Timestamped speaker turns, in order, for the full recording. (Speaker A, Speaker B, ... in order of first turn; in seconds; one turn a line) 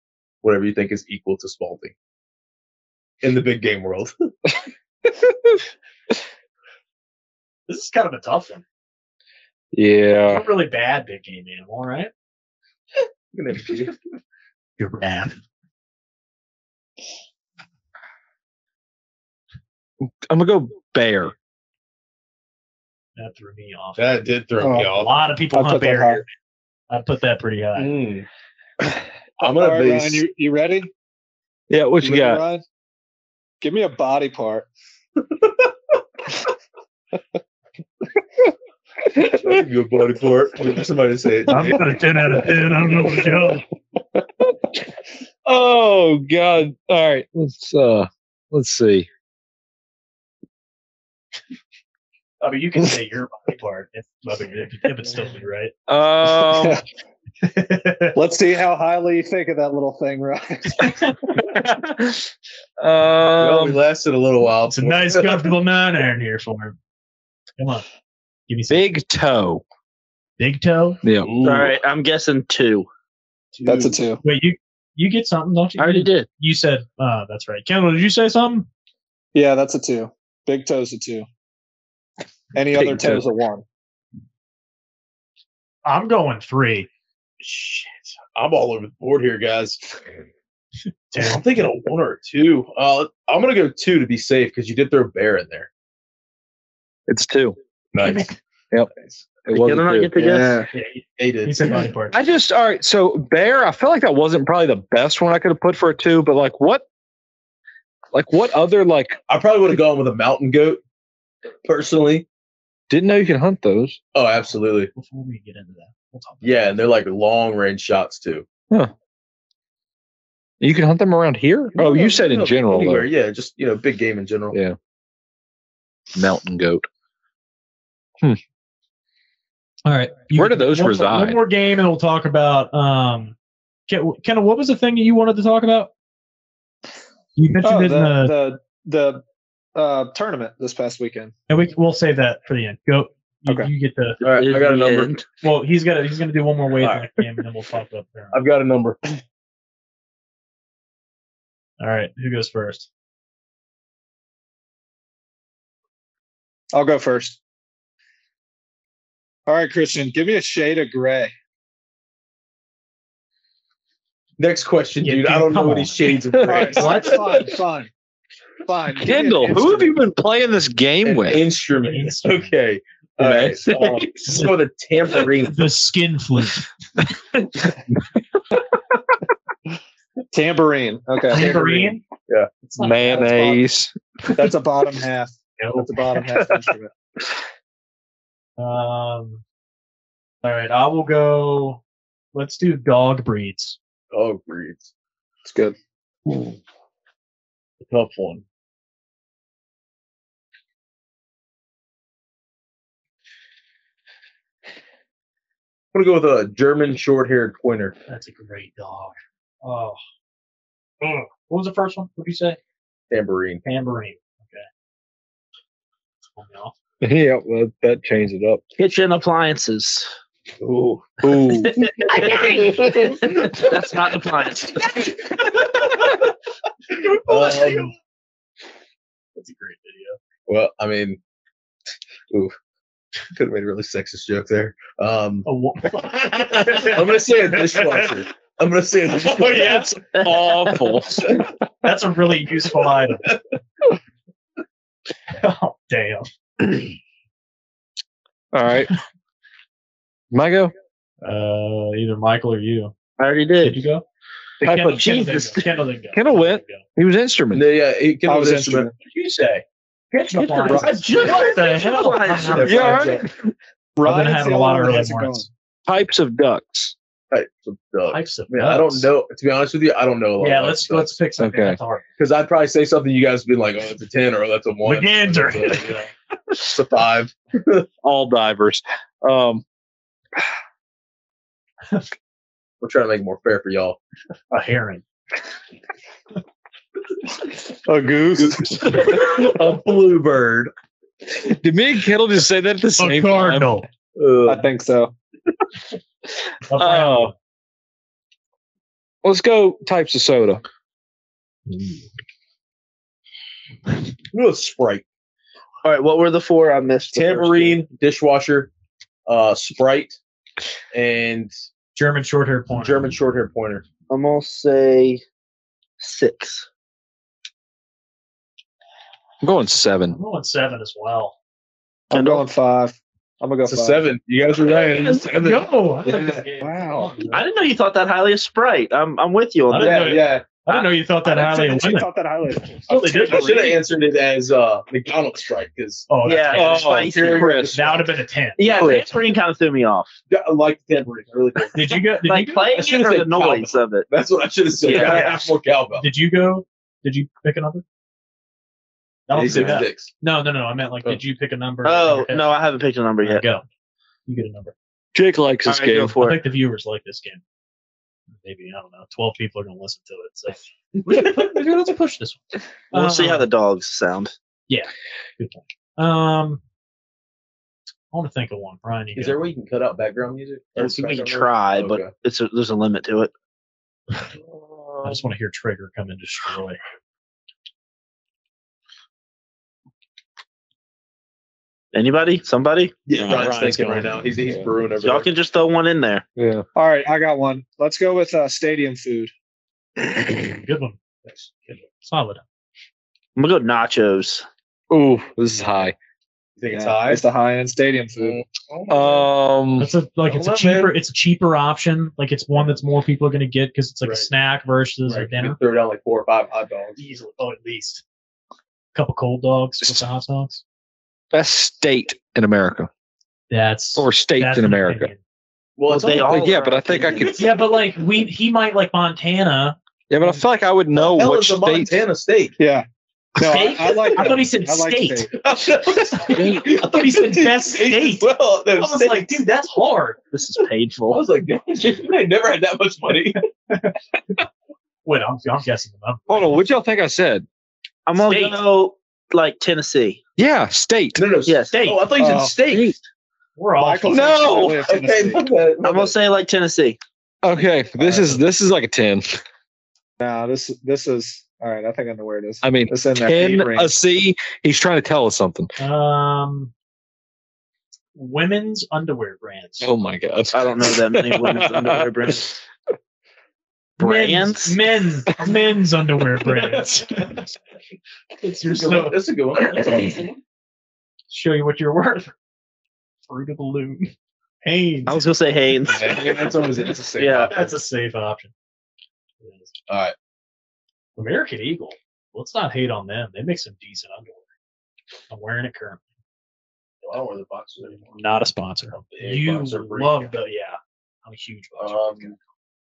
Speaker A: 0.4-1.9
Speaker A: 3.2-4.1
Speaker B: 5.1-5.6
Speaker C: 7.7-8.6
Speaker B: 9.7-10.4
Speaker C: 10.3-12.1
Speaker A: 13.3-14.0
Speaker C: 14.8-15.4
Speaker B: 20.3-21.3
Speaker C: 23.2-24.1
Speaker A: 24.0-25.1
Speaker D: 24.6-25.0
Speaker C: 24.9-26.3
Speaker D: 25.5-26.2
Speaker C: 26.9-28.0
Speaker A: 27.8-28.3
Speaker A: 29.4-30.2
Speaker D: 29.4-30.9
Speaker B: 31.7-32.4
Speaker D: 32.0-32.6
Speaker D: 33.6-34.7
Speaker A: 35.2-35.7
Speaker B: 39.1-39.5
Speaker A: 39.3-41.9
Speaker C: 41.5-43.6
Speaker B: 45.5-49.1
Speaker C: 52.4-55.7
Speaker B: 55.9-56.8
Speaker D: 56.4-56.8
Speaker C: 57.4-58.2
Speaker D: 58.1-61.2
Speaker B: 61.4-63.8
Speaker A: 63.4-65.5
Speaker C: 64.7-66.8
Speaker C: 67.6-67.9
Speaker C: 68.5-68.9
Speaker B: 68.7-69.6
Speaker C: 70.4-71.0
Speaker B: 71.0-71.3
Speaker A: 71.2-71.8
Speaker E: 71.4-72.9
Speaker A: 73.5-74.0
Speaker D: 73.7-74.2
Speaker C: 74.2-78.7
Speaker E: 75.8-76.3
Speaker D: 79.3-81.3
Speaker D: 82.5-83.6
Speaker B: 82.8-83.3
Speaker C: 85.8-86.9
Speaker A: 87.4-89.8
Speaker C: 91.1-91.4
Speaker A: 91.1-95.7
Speaker B: 97.1-97.6
Speaker A: 97.9-98.3
Speaker C: 98.0-98.3
Speaker B: 99.5-100.1
Speaker E: 99.5-100.6
Speaker D: 100.2-100.7
Speaker C: 100.7-102.2
Speaker A: 101.2-101.8
Speaker B: 102.1-106.8
Speaker B: 108.1-109.2
Speaker A: 109.3-110.8
Speaker A: 111.6-112.3
Speaker B: 112.9-114.0
Speaker A: 114.1-114.9
Speaker C: 115.0-116.9
Speaker A: 116.4-118.5
Speaker B: 120.6-123.1
Speaker A: 121.7-124.6
Speaker B: 126.2-126.9
Speaker C: 129.9-133.3
Speaker B: 130.3-131.4
Speaker C: 133.9-135.9
Speaker C: 137.4-138.3
Speaker D: 137.6-139.2
Speaker D: 139.8-141.3
Speaker C: 141.5-144.2
Speaker A: 144.2-145.2
Speaker E: 144.2-145.2
Speaker C: 145.4-148.4
Speaker A: 146.8-147.1
Speaker A: 148.3-149.2
Speaker C: 151.8-152.9
Speaker D: 156.7-157.4
Speaker D: 159.5-161.3
Speaker A: 164.4-167.3
Speaker C: 165.0-167.4
Speaker B: 166.3-166.7
Speaker D: 166.4-167.9
Speaker D: 168.7-169.9
Speaker B: 169.0-171.4
Speaker A: 171.0-175.7
Speaker C: 171.8-172.5
Speaker B: 173.2-174.1
Speaker C: 175.4-176.7
Speaker D: 180.3-182.0
Speaker C: 181.3-182.0
Speaker C: 182.7-183.4
Speaker B: 182.8-183.9
Speaker D: 182.9-183.6
Speaker D: 184.3-186.9
Speaker C: 185.6-185.9
Speaker C: 188.6-189.4
Speaker C: 190.4-191.8
Speaker C: 192.3-193.8
Speaker A: 194.1-194.9
Speaker D: 195.4-195.8
Speaker A: 197.8-198.4
Speaker A: 205.9-207.9
Speaker C: 208.1-210.0
Speaker C: 211.0-212.6
Speaker A: 213.1-213.6
Speaker C: 213.6-214.7
Speaker C: 216.4-216.8
Speaker B: 217.0-218.6
Speaker E: 218.8-220.1
Speaker A: 220.6-221.1
Speaker B: 221.2-222.3
Speaker E: 221.5-225.1
Speaker A: 222.2-223.0
Speaker C: 226.9-227.9
Speaker A: 227.3-227.9
Speaker C: 229.4-230.2
Speaker A: 230.5-231.2
Speaker A: 233.3-235.5
Speaker C: 235.4-238.2
Speaker A: 236.4-239.9
Speaker C: 239.2-240.2
Speaker B: 240.1-241.4
Speaker E: 240.2-240.7
Speaker C: 241.8-243.3
Speaker C: 245.3-246.8
Speaker B: 248.5-248.9
Speaker B: 250.3-250.7
Speaker C: 251.2-252.9
Speaker E: 253.2-253.8
Speaker C: 253.6-254.1
Speaker B: 254.6-255.4
Speaker C: 254.7-256.8
Speaker E: 254.9-255.6
Speaker B: 256.1-257.7
Speaker A: 257.5-259.6
Speaker D: 258.3-258.9
Speaker C: 260.1-263.1
Speaker E: 260.4-262.9
Speaker A: 260.7-261.6
Speaker A: 262.4-263.2
Speaker B: 262.6-263.5
Speaker C: 264.0-265.5
Speaker D: 264.0-265.5
Speaker B: 265.9-266.9
Speaker A: 267.3-271.2
Speaker C: 268.1-269.1
Speaker C: 270.4-272.0
Speaker B: 271.4-271.8
Speaker A: 272.2-276.0
Speaker C: 274.8-276.1
Speaker A: 276.6-277.9
Speaker B: 278.0-279.6
Speaker A: 282.8-284.0
Speaker C: 284.5-285.0
Speaker D: 287.9-289.0
Speaker A: 288.4-290.7
Speaker B: 291.3-293.7
Speaker C: 293.0-293.9
Speaker A: 294.2-294.7
Speaker D: 294.4-295.1
Speaker C: 296.7-297.3
Speaker B: 296.7-297.3
Speaker B: 299.2-300.6
Speaker C: 301.7-302.0
Speaker A: 304.3-305.0
Speaker E: 305.8-307.8
Speaker A: 307.1-308.7
Speaker A: 309.3-310.2
Speaker A: 310.9-311.5
Speaker C: 312.0-313.1
Speaker A: 312.7-313.9
Speaker E: 314.1-315.2
Speaker E: 316.0-316.7
Speaker B: 319.4-320.2
Speaker C: 320.1-321.4
Speaker D: 322.1-324.0
Speaker E: 322.1-322.4
Speaker A: 323.6-326.4
Speaker C: 325.3-327.5
Speaker D: 326.6-327.1
Speaker E: 327.3-330.9
Speaker C: 329.7-332.1
Speaker A: 329.8-330.4
Speaker D: 331.2-333.6
Speaker C: 332.9-333.8
Speaker A: 333.1-338.1
Speaker C: 336.1-336.9
Speaker E: 336.2-337.6
Speaker B: 336.5-337.8
Speaker C: 337.7-338.9
Speaker E: 338.6-340.1
Speaker A: 338.6-339.1
Speaker A: 340.3-342.0
Speaker C: 341.7-343.0
Speaker E: 342.2-344.1
Speaker A: 342.8-346.1
Speaker E: 344.8-345.5
Speaker C: 344.9-347.8
Speaker C: 349.3-352.6
Speaker A: 349.3-350.1
Speaker E: 351.8-353.4
Speaker C: 353.2-353.6
Speaker C: 354.3-354.7
Speaker B: 355.1-356.2
Speaker E: 355.7-356.4
Speaker C: 356.2-357.4
Speaker C: 358.4-363.5
Speaker E: 362.9-364.3
Speaker C: 364.7-366.6
Speaker C: 368.1-369.4
Speaker A: 369.1-372.1
Speaker E: 370.8-373.3
Speaker B: 374.7-375.1
Speaker C: 375.0-376.8
Speaker E: 381.9-383.5
Speaker A: 383.1-385.3
Speaker C: 383.3-384.1
Speaker E: 385.0-386.2
Speaker B: 386.4-386.6
Speaker D: 386.8-389.3
Speaker C: 390.3-391.0
Speaker A: 391.2-391.8
Speaker C: 392.0-392.4
Speaker E: 393.4-394.5
Speaker B: 394.9-395.9
Speaker A: 396.6-397.2
Speaker D: 396.7-398.4
Speaker A: 398.2-399.3
Speaker B: 398.9-399.9
Speaker C: 399.8-405.6
Speaker A: 400.2-400.9
Speaker A: 404.0-404.3
Speaker A: 405.1-407.0
Speaker C: 407.0-408.0
Speaker C: 408.9-410.6
Speaker B: 411.3-412.9
Speaker C: 413.5-415.2
Speaker B: 414.0-415.1
Speaker A: 415.8-416.5
Speaker E: 415.9-417.4
Speaker B: 416.1-417.4
Speaker C: 417.3-420.4
Speaker B: 420.1-421.9
Speaker A: 420.9-422.6
Speaker D: 422.6-422.9
Speaker D: 423.4-425.3
Speaker C: 423.4-425.3
Speaker A: 425.4-429.4
Speaker C: 425.9-430.2
Speaker E: 430.3-431.2
Speaker A: 431.1-433.4
Speaker C: 433.7-433.9
Speaker C: 435.1-436.5
Speaker B: 436.3-437.5
Speaker E: 438.1-440.2
Speaker C: 438.2-438.6
Speaker B: 440.4-441.2
Speaker A: 441.2-442.9
Speaker E: 441.5-441.8
Speaker C: 441.7-442.1
Speaker D: 442.2-442.6
Speaker E: 442.7-443.0
Speaker C: 443.6-444.7
Speaker D: 443.8-445.4
Speaker B: 444.1-444.8
Speaker A: 444.9-446.1
Speaker E: 445.8-447.0
Speaker B: 447.4-449.4
Speaker D: 448.0-448.4
Speaker D: 450.2-453.9
Speaker B: 452.6-455.7
Speaker C: 455.8-456.7
Speaker C: 458.1-459.9
Speaker B: 459.8-462.4
Speaker E: 460.5-462.6
Speaker E: 464.0-464.8
Speaker C: 464.0-467.5
Speaker C: 468.4-469.2
Speaker A: 468.7-470.3
Speaker C: 469.8-470.1
Speaker C: 471.3-472.3
Speaker C: 473.3-475.2
Speaker E: 475.1-476.5
Speaker A: 475.8-477.7
Speaker E: 477.2-477.5
Speaker C: 477.5-478.5
Speaker C: 479.4-479.7
Speaker A: 479.9-480.1
Speaker C: 481.2-484.4
Speaker C: 485.3-486.0
Speaker A: 487.0-488.2
Speaker C: 488.1-492.4
Speaker A: 489.0-490.3
Speaker A: 491.8-492.3